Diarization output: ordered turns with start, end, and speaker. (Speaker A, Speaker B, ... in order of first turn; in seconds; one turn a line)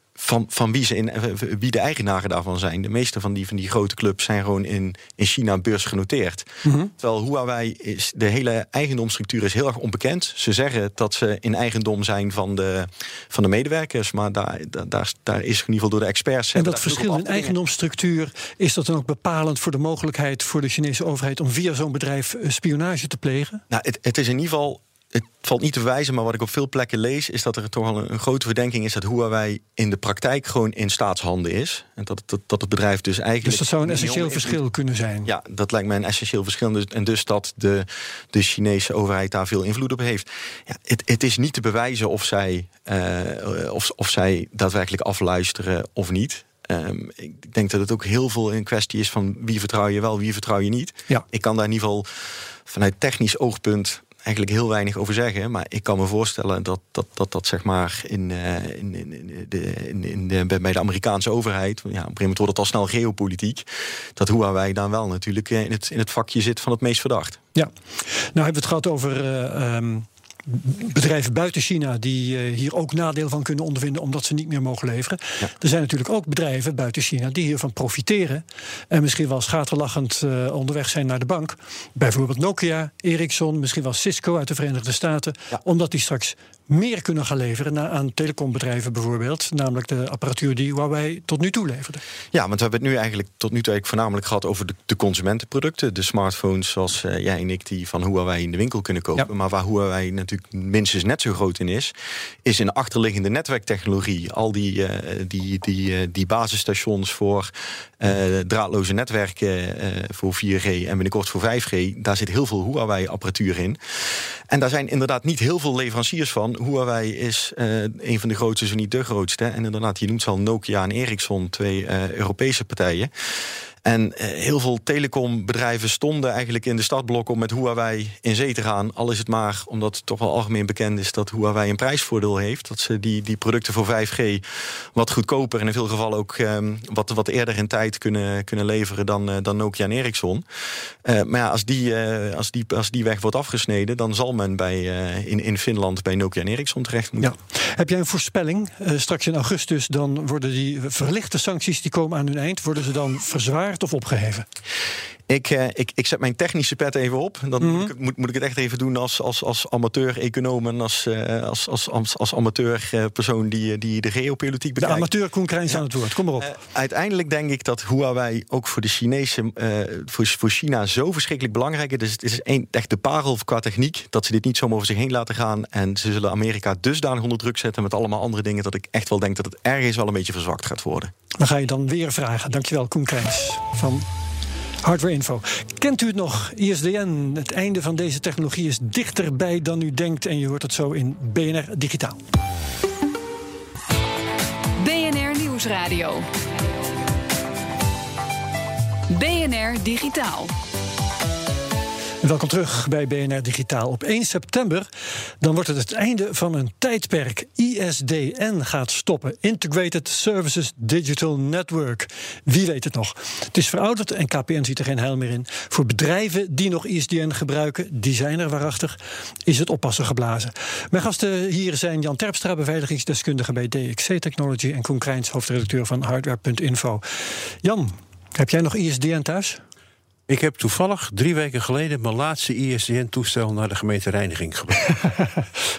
Speaker A: 0.2-17.5
Speaker B: 6.6-6.9
Speaker B: 16.5-23.6
Speaker A: 23.7-34.6
Speaker B: 33.4-35.3
Speaker A: 35.2-52.0
Speaker A: 52.7-67.4
Speaker B: 68.3-92.0
Speaker A: 92.3-101.9
Speaker A: 102.4-113.8
Speaker A: 114.5-123.1
Speaker A: 123.8-140.4
Speaker A: 141.0-147.3
Speaker B: 147.2-154.4
Speaker A: 155.3-165.1
Speaker B: 157.6-157.9
Speaker B: 164.8-166.5
Speaker A: 166.4-181.1
Speaker B: 181.4-184.1
Speaker B: 184.8-192.2
Speaker C: 194.8-196.3
Speaker C: 199.1-200.5
Speaker B: 202.2-204.9
Speaker B: 205.4-229.6
Speaker D: 230.3-235.0